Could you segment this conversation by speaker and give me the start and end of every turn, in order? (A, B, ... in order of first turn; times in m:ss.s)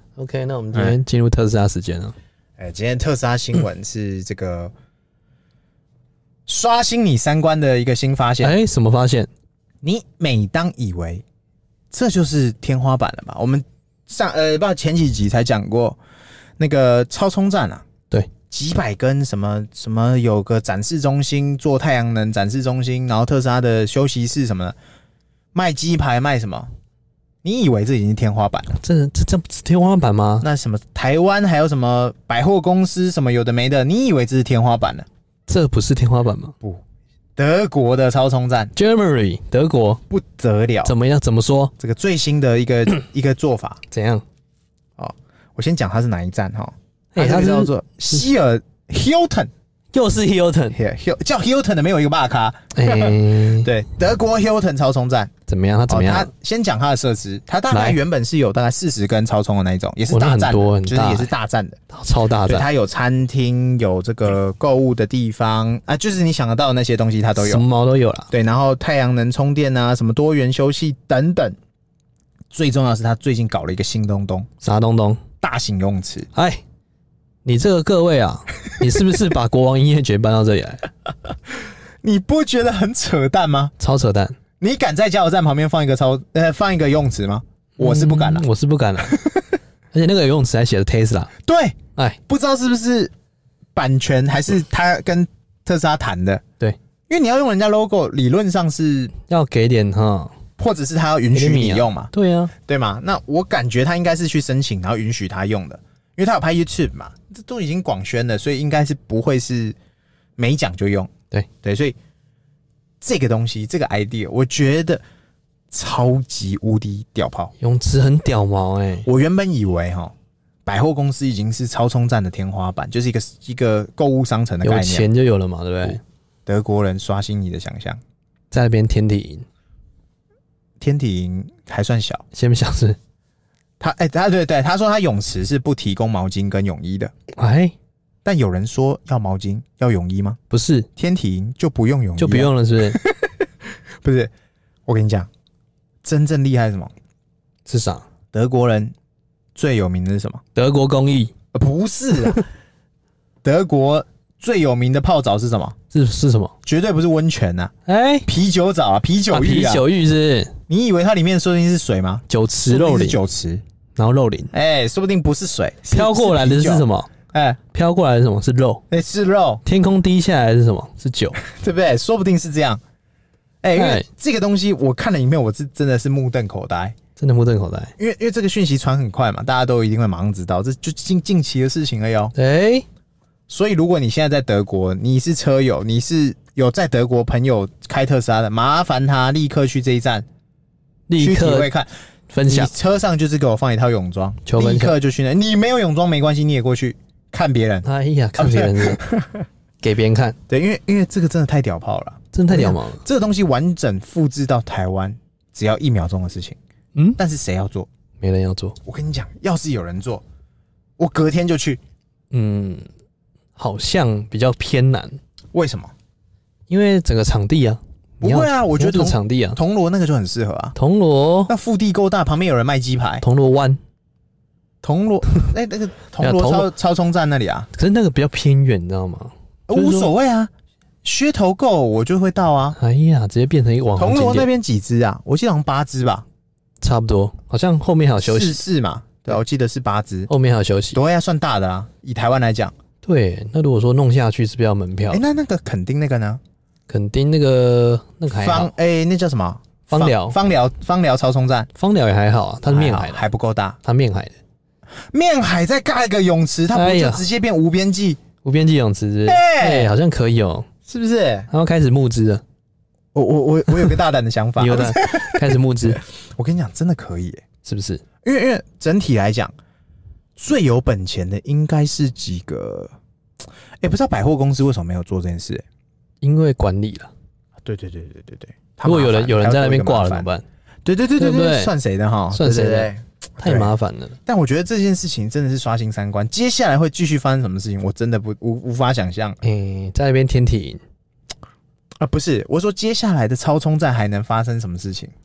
0:00.2-0:02.2 A
0:00.7-0:01.0 B
0:02.6-0:04.7 B
0:06.5-0:08.6 B
0:08.4-0:09.3 A
0:09.8-0:11.2 B
0:11.9-0:16.0 B
0:16.6-0:17.8 B
0:18.5-0:24.8 B
0:25.5-0:26.7 B
0:27.4-0:28.7 B
0:28.7-0:30.5 A
0:30.4-0:35.1 B
0:35.5-0:36.6 A
0:37.4-0:38.7 B
0:38.8-0:40.0 A
0:40.1-0:40.9 B
0:40.8-0:41.7 A
0:41.8-0:43.8 B
0:43.9-0:44.2 A
0:45.0-0:49.5 B
0:47.2-0:47.7 A
0:49.9-0:50.8 A
0:50.7-0:55.3 B
0:52.8-0:53.7 A
0:55.5-0:56.3 A
0:55.9-1:01.8 B
0:57.7-0:58.0 A
1:00.1-1:01.3 A
1:01.9-1:02.7 A
1:02.5-1:07.6 B
1:07.4-1:08.3 A
1:08.3-1:11.6 B
1:12.5-1:14.5 B
1:14.6-1:15.2 A
1:15.4-1:16.3 B
1:16.3-1:16.6 A
1:17.4-1:20.9 A
1:22.0-1:23.7 B
1:23.8-1:24.4 A
1:24.6-1:28.5 B
1:27.8-1:29.2 A
1:29.1-1:29.4 B
1:29.9-1:31.3 A
1:31.4-1:33.1 B
1:33.8-1:36.4 B
1:37.1-1:39.1 B
1:39.2-1:40.3 A
1:40.6-1:42.1 B
1:41.3-1:42.5 A
1:42.7-1:49.8 B
1:50.4-1:51.1 B
1:51.6-1:52.0 B
1:53.0-1:55.0 B
1:55.7-1:57.5 B
1:57.6-1:59.1 A
1:59.0-2:00.1 B
2:00.7-2:05.1 B
2:04.6-2:06.0 A
2:05.9-2:08.0 B
2:08.5-2:09.5 A
2:10.8-2:12.2 B
2:12.3-2:13.0 A
2:13.8-2:17.1 B
2:17.3-2:17.7 A
2:18.2-2:20.4 B
2:20.5-2:20.9 A
2:21.0-2:23.5 B
2:22.2-2:23.0 A
2:24.0-2:24.3 B
2:24.9-2:25.3 B
2:26.0-2:26.9 B
2:27.7-2:28.1 A
2:28.3-2:28.9 B
2:29.6-2:30.4 B
2:30.6-2:31.3 A
2:31.5-2:32.4 B
2:33.4-2:35.8 B
2:35.9-2:36.5 A
2:36.6-2:37.7 B
2:37.9-2:38.3 A
2:38.3-2:39.9 B
2:39.3-2:40.5 A
2:40.7-2:43.6 B
2:42.3-2:43.2 A
2:44.0-2:44.5 A
2:44.5-2:47.6 B
2:45.9-2:47.1 A
2:47.7-2:48.8 A
2:48.9-2:49.6 B
2:49.6-2:51.4 A
2:51.4-2:52.8 B
2:53.6-2:57.0 B
2:53.8-2:54.1 A
2:57.2-2:57.9 A
2:58.0-3:02.3 B
3:02.4-3:02.9 A
3:03.5-3:10.3 B
3:11.1-3:11.7 A
3:11.2-3:11.9 B
3:12.3-3:12.7 A
3:12.4-3:19.5 B
3:14.4-3:15.0 A
3:17.8-3:19.0 A
3:19.8-3:20.4 A
3:20.5-3:26.6 B
3:22.3-3:23.0 A
3:27.2-3:27.9 B
3:28.2-3:28.8 A
3:28.8-3:30.2 B
3:31.0-3:31.8 B
3:32.3-3:32.9 A
3:33.6-3:35.2 A
3:35.5-3:35.9 B
3:36.7-3:39.6 A
3:38.2-3:40.8 B
3:40.8-3:41.5 A
3:41.5-3:43.2 B
3:43.2-3:43.8 A
3:44.8-3:47.7 B
3:46.2-3:46.7 A
3:47.7-3:50.1 A
3:49.7-3:50.5 B
3:51.0-3:52.8 B
3:52.8-3:54.5 A
3:54.0-3:56.3 B
3:56.8-3:58.6 A
3:58.2-4:00.3 B
4:00.3-4:01.0 A
4:00.9-4:02.7 B
4:03.0-4:05.2 A
4:05.1-4:06.4 B
4:06.9-4:08.7 A
4:08.3-4:11.7 B
4:09.9-4:10.4 A
4:11.8-4:13.3 A
4:12.7-4:13.8 B
4:13.8-4:14.4 A
4:15.1-4:18.2 B
4:16.7-4:17.3 A
4:18.4-4:20.7 A
4:19.3-4:19.9 B
4:20.9-4:21.5 B
4:21.5-4:22.4 A
4:23.1-4:27.4 B
4:24.6-4:26.0 A
4:27.6-4:28.0 A
4:28.2-4:29.5 B
4:30.4-4:32.9 B
4:33.8-4:35.6 B
4:36.2-4:37.1 A
4:37.6-4:40.3 B
4:38.8-4:40.4 A
4:40.8-4:43.7 B
4:41.2-4:41.7 A
4:42.3-4:44.2 A
4:44.3-4:49.4 B
4:49.4-4:50.8 A
4:52.0-4:55.1 B